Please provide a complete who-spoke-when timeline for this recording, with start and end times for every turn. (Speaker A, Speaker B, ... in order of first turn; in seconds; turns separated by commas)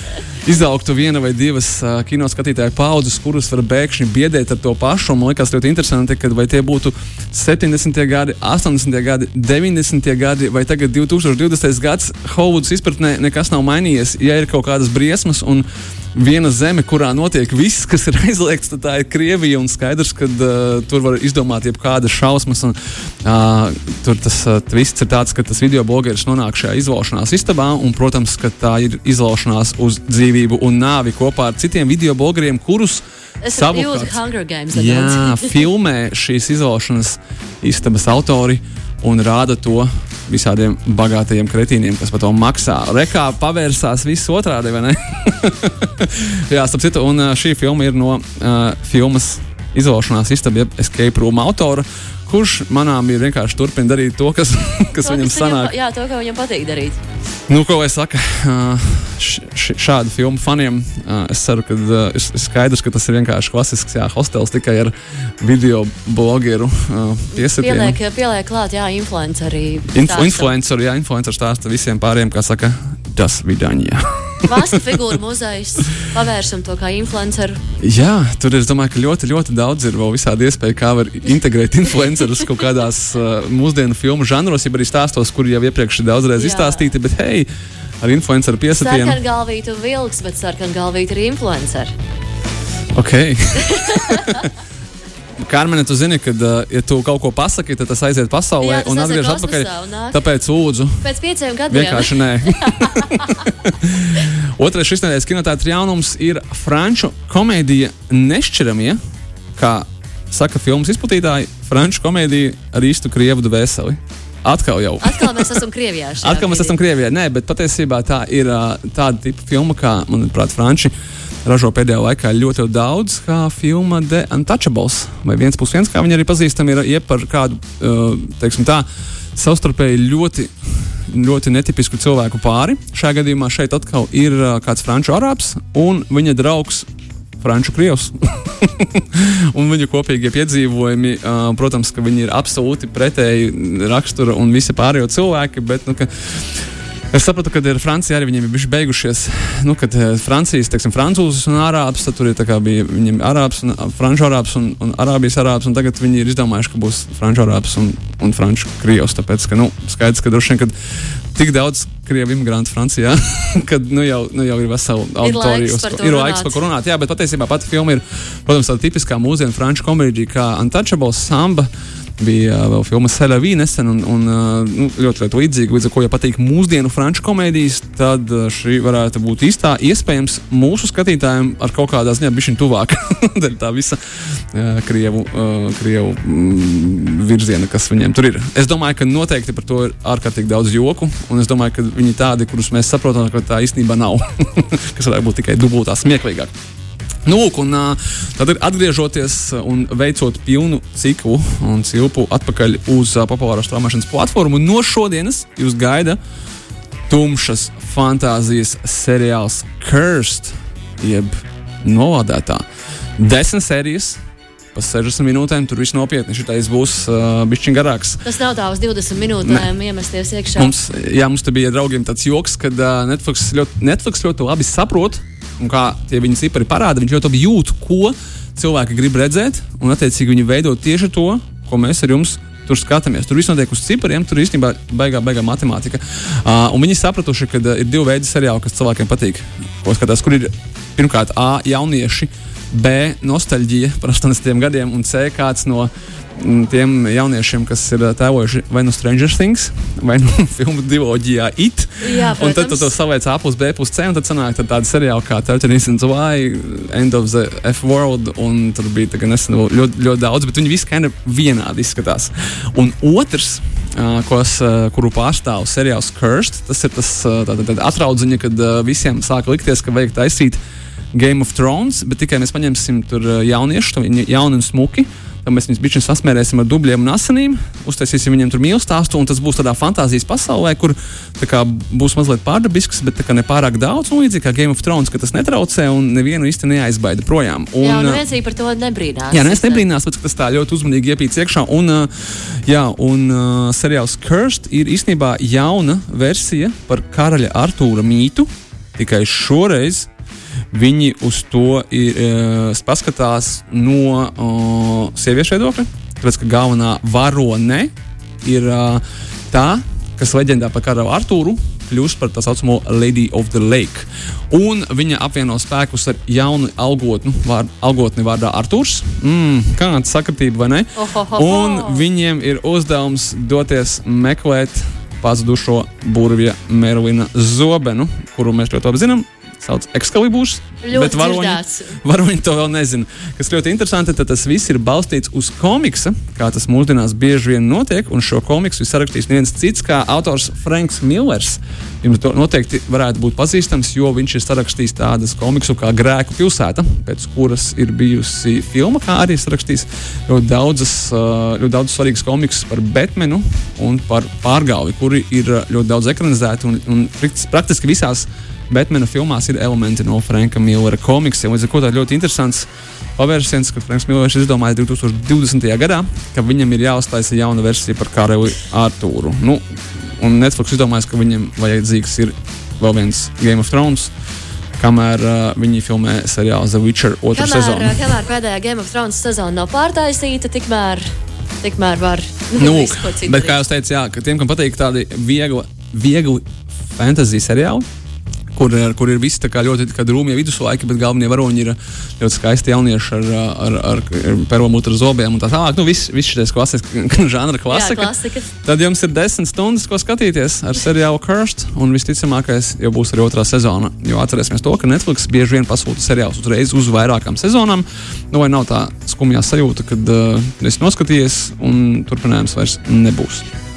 Speaker A: 0.4-34.2, Speaker B: 33.4-35.6, Speaker A: 34.7-55.7, Speaker B: 55.0-57.0, Speaker A: 57.5-68.0, Speaker B: 67.3-70.5, Speaker A: 69.9-74.8, Speaker B: 74.5-77.6, Speaker A: 77.8-87.5, Speaker B: 86.4-86.9, Speaker A: 88.0-89.2, Speaker B: 88.7-91.9, Speaker A: 93.0-94.5, Speaker B: 93.6-94.4, Speaker A: 95.4-101.0, Speaker B: 98.6-100.3, Speaker B: 101.0-103.5, Speaker A: 101.7-109.0, Speaker A: 109.6-115.6, Speaker B: 115.0-116.8, Speaker A: 116.2-120.9, Speaker A: 121.5-136.9, Speaker A: 137.4-160.7, Speaker A: 161.3-196.5, Speaker B: 165.2-166.6, Speaker A: 197.3-206.2, Speaker A: 207.1-212.7, Speaker A: 213.2-214.2, Speaker A: 214.7-218.2, Speaker B: 218.2-220.7, Speaker A: 219.4-219.7, Speaker A: 220.6-270.6, Speaker B: 252.0-252.9, Speaker A: 271.1-288.2, Speaker B: 287.8-289.9, Speaker A: 289.3-300.1, Speaker A: 300.7-307.9, Speaker A: 308.4-369.6, Speaker B: 321.0-322.0, Speaker B: 330.8-332.0, Speaker A: 370.2-374.1, Speaker A: 374.8-378.1, Speaker B: 377.3-381.0, Speaker B: 381.6-383.6, Speaker A: 382.6-387.9, Speaker A: 388.5-398.1, Speaker B: 397.7-398.5, Speaker A: 398.6-413.5